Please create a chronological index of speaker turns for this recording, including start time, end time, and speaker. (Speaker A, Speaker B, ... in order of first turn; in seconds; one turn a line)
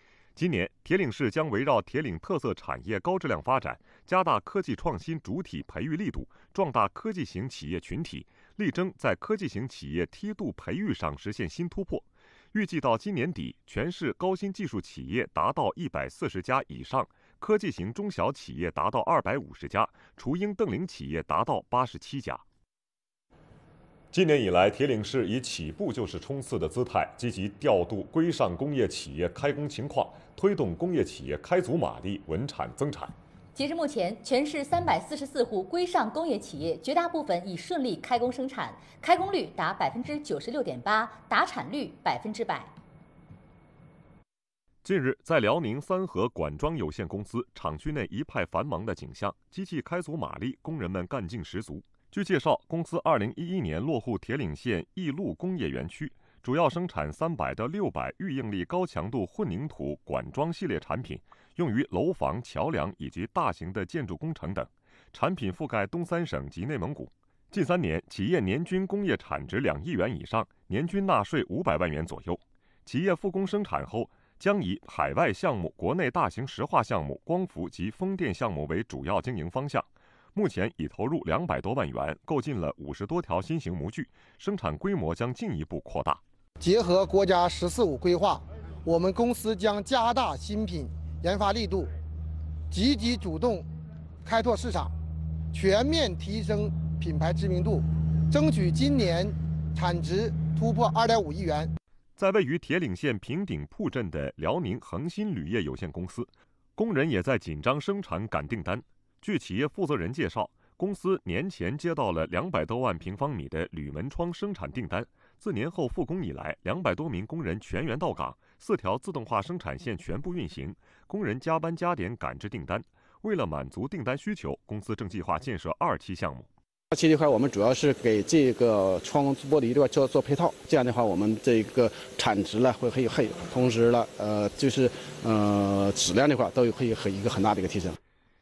Speaker A: 0.4-22.4
Speaker A: 24.1-33.1
Speaker B: 33.5-42.7
Speaker A: 44.8-86.2
Speaker C: 86.6-91.9
Speaker C: 92.7-93.7
Speaker C: 94.2-94.9
Speaker C: 95.5-101.7
Speaker A: 102.2-126.5
Speaker D: 127.0-137.8